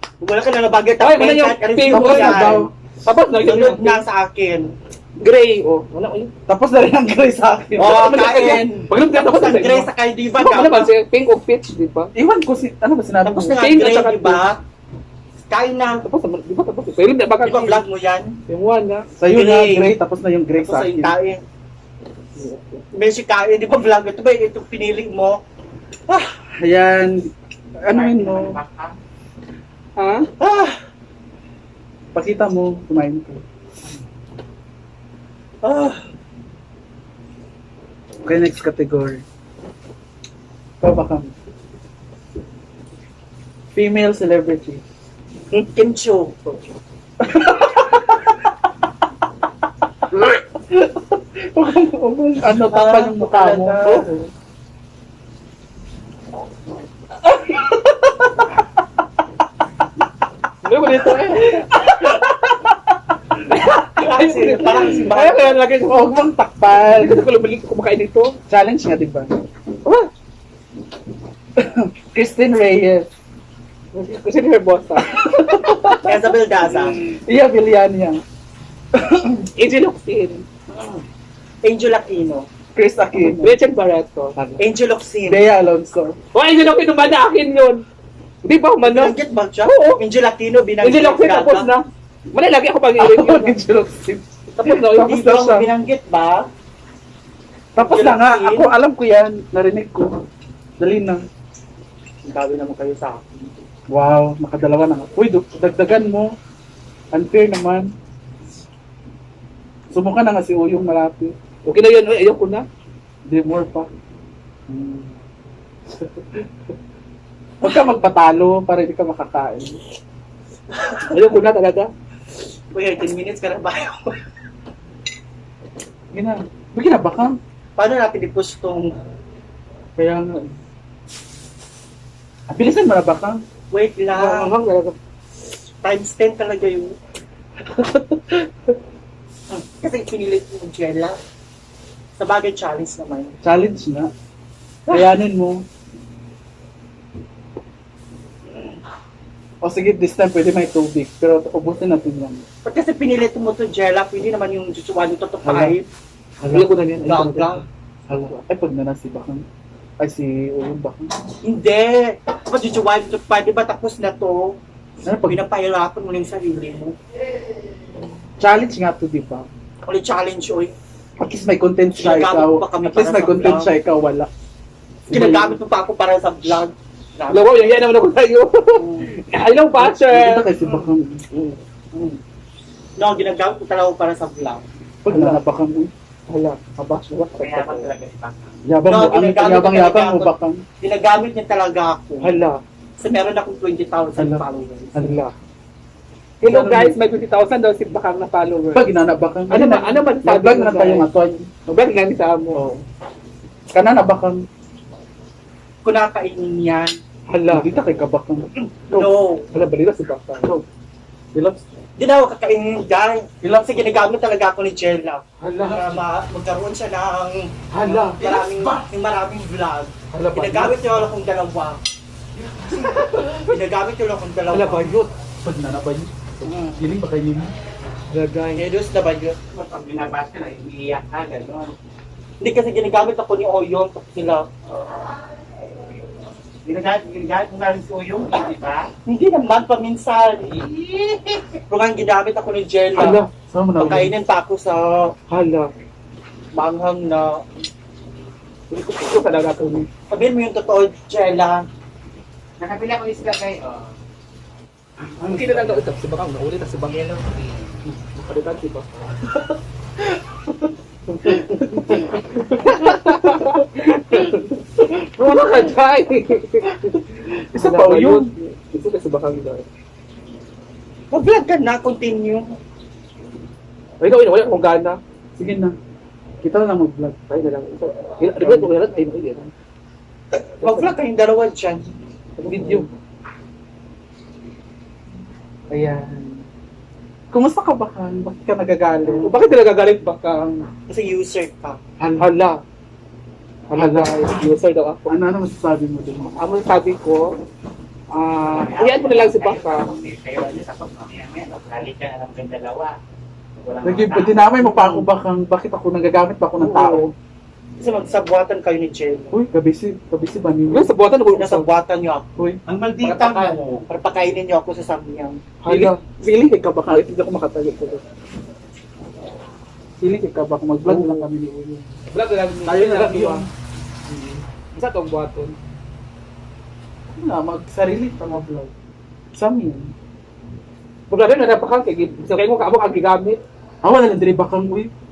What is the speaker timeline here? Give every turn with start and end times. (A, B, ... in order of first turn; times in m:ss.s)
0:00.2-0:02.7 A
0:01.0-0:04.0 B
0:01.9-0:02.7 C
0:03.4-0:04.7 A
0:05.2-0:06.3 B
0:06.5-0:08.6 C
0:07.8-0:10.9 A
0:07.8-0:12.1 B
0:12.1-0:13.6 C
0:13.2-0:14.6 A
0:13.6-0:14.5 B
0:15.5-0:16.0 A
0:16.0-0:17.8 B
0:17.4-0:18.4 A
0:18.5-0:19.1 B
0:19.2-0:21.1 C
0:19.3-0:19.9 A
0:20.6-0:21.4 A
0:22.4-0:22.8 B
0:22.9-0:25.4 A
0:26.1-0:26.3 A
0:26.6-0:28.6 C
0:27.9-0:29.0 D
0:30.0-0:30.3 B
0:30.4-0:30.8 A
0:32.1-0:33.4 C
0:35.6-0:36.0 A
0:38.2-0:39.2 C
0:40.8-0:41.3 C
0:43.7-0:44.8 C
0:45.5-0:46.8 A
0:47.2-0:48.3 C
0:50.1-0:54.0 C
0:52.4-0:54.1 A
0:53.9-0:54.3 B
0:57.4-0:58.4 C
1:00.6-1:01.8 B
1:01.2-1:02.8 C
1:03.4-1:06.2 B
1:04.0-1:05.6 A
1:05.8-1:07.2 C
1:06.7-1:08.4 B
1:08.5-1:09.3 C
1:09.8-1:10.1 B
1:11.6-1:13.1 C
1:13.9-1:15.2 B
1:15.0-1:18.2 C
1:15.9-1:17.0 A
1:18.9-1:19.4 C
1:19.5-1:20.4 B
1:21.6-1:22.5 A
1:22.7-1:23.6 C
1:23.4-1:24.3 B
1:24.6-1:25.4 A
1:25.2-1:26.2 C
1:26.3-1:27.8 B
1:28.4-1:30.0 B
1:28.8-1:31.7 A
1:30.8-1:33.6 B
1:33.0-1:35.4 C
1:34.6-1:35.6 B
1:34.7-1:36.5 A
1:37.8-1:38.7 A
1:37.8-1:40.1 C
1:40.8-1:41.2 C
1:42.2-1:43.5 A
1:43.9-1:46.3 C
1:47.1-1:47.9 C
1:49.9-1:51.3 C
1:51.6-1:52.6 B
1:53.3-1:53.9 C
1:54.7-1:55.2 C
1:56.0-1:56.4 C
1:57.6-1:59.8 C
2:00.8-2:01.1 A
2:01.1-2:01.9 B
2:02.7-2:04.1 A
2:06.1-2:07.4 C
2:07.8-2:08.9 A
2:10.0-2:10.4 C
2:12.5-2:13.4 C
2:13.7-2:14.5 A
2:14.2-2:14.5 C
2:14.2-2:15.0 B
2:15.8-2:16.9 A
2:17.8-2:18.3 C
2:19.5-2:21.2 A
2:22.2-2:23.4 A
2:23.4-2:24.1 C
2:24.9-2:25.6 C
2:29.6-2:32.4 C
2:32.6-2:35.9 A
2:35.4-2:35.8 C
2:36.4-2:37.2 C
2:36.5-2:37.5 B
2:37.0-2:37.6 A
2:38.1-2:39.4 C
2:38.1-2:38.4 B
2:40.0-2:41.1 C
2:41.4-2:44.6 A
2:45.0-2:45.4 C
2:45.2-2:46.9 A
2:48.4-2:49.5 C
2:49.8-2:50.7 A
2:51.2-2:54.3 C
2:52.0-2:53.7 A
2:55.1-2:55.6 C
2:55.1-2:57.6 A
2:57.3-3:00.5 B
2:58.8-2:59.0 A
2:59.8-3:01.2 C
3:03.0-3:04.6 A
3:05.0-3:05.9 C
3:05.1-3:05.4 B
3:06.3-3:07.9 B
3:07.3-3:08.7 D
3:08.6-3:10.6 C
3:08.8-3:12.3 A
3:12.2-3:12.6 B
3:13.0-3:15.0 A
3:14.2-3:14.4 C
3:14.9-3:15.2 C
3:15.0-3:15.3 B
3:16.4-3:17.0 C
3:16.4-3:18.9 B
3:18.7-3:21.5 C
3:19.5-3:21.1 B
3:21.7-3:22.6 B
3:22.5-3:22.8 C
3:23.7-3:24.4 C
3:25.8-3:27.0 A
3:27.3-3:27.7 B
3:27.4-3:29.1 C
3:28.9-3:29.5 A
3:29.5-3:30.5 B
3:31.3-3:31.6 C
3:32.0-3:41.8 A
3:35.4-3:35.8 B
3:35.6-3:36.0 C
3:37.7-3:38.9 C
3:37.8-3:38.2 B
3:40.1-3:40.5 B
3:40.2-3:40.9 C
3:42.7-3:43.4 B
3:42.7-3:44.9 A
3:44.5-3:45.1 B
3:45.4-3:47.5 C
3:46.4-3:46.8 A
3:48.1-3:48.6 B
3:48.5-3:49.4 A
3:49.4-3:51.7 D
3:52.4-3:54.5 A
3:56.6-3:58.9 D
3:59.0-4:00.7 A
4:00.5-4:01.6 D
4:01.7-4:03.2 A
4:03.0-4:03.3 B
4:03.0-4:04.1 C
4:03.8-4:05.1 A
4:05.3-4:05.7 B
4:06.5-4:07.4 A
4:08.7-4:09.9 B
4:10.1-4:11.6 A
4:12.6-4:13.9 D
4:15.2-4:15.8 C
4:15.2-4:17.1 B
4:16.8-4:17.8 D
4:17.9-4:18.8 B
4:20.2-4:20.6 C
4:21.2-4:26.9 B
4:21.2-4:23.6 C
4:24.1-4:24.4 C
4:25.2-4:25.6 C
4:27.5-4:28.3 C
4:27.6-4:29.6 B
4:31.1-4:32.5 A
4:34.0-4:35.0 B
4:35.4-4:35.7 C
4:36.4-4:37.2 C
4:37.3-4:39.5 B
4:38.4-4:38.7 C
4:40.6-4:40.9 B
4:40.6-4:41.9 A
4:42.4-4:42.9 B
4:42.4-4:42.9 C
4:45.7-4:46.4 C
4:47.3-4:49.3 C
4:49.0-4:49.3 A
4:49.2-4:50.6 B
4:50.9-4:51.8 A
4:52.0-4:52.3 C
4:52.2-4:52.6 B
4:53.7-4:55.1 B
4:53.7-4:54.1 C
4:55.1-4:56.4 C
4:56.3-4:57.4 B
4:58.1-4:59.9 B
4:58.4-5:03.0 D
5:03.6-5:04.7 D
5:03.8-5:07.1 C
5:04.6-5:05.0 B
5:06.6-5:07.1 B
5:07.8-5:09.3 A
5:09.3-5:10.9 C
5:10.7-5:11.7 B
5:11.3-5:12.3 A
5:12.6-5:13.8 D
5:13.0-5:15.4 A
5:15.6-5:16.0 B
5:15.6-5:18.0 C
5:20.0-5:21.9 C
5:20.8-5:21.3 B
5:22.1-5:23.4 B
5:22.6-5:23.5 C
5:24.1-5:25.5 B
5:27.1-5:28.7 C
5:29.3-5:29.9 C
5:31.1-5:33.4 B
5:33.8-5:34.9 C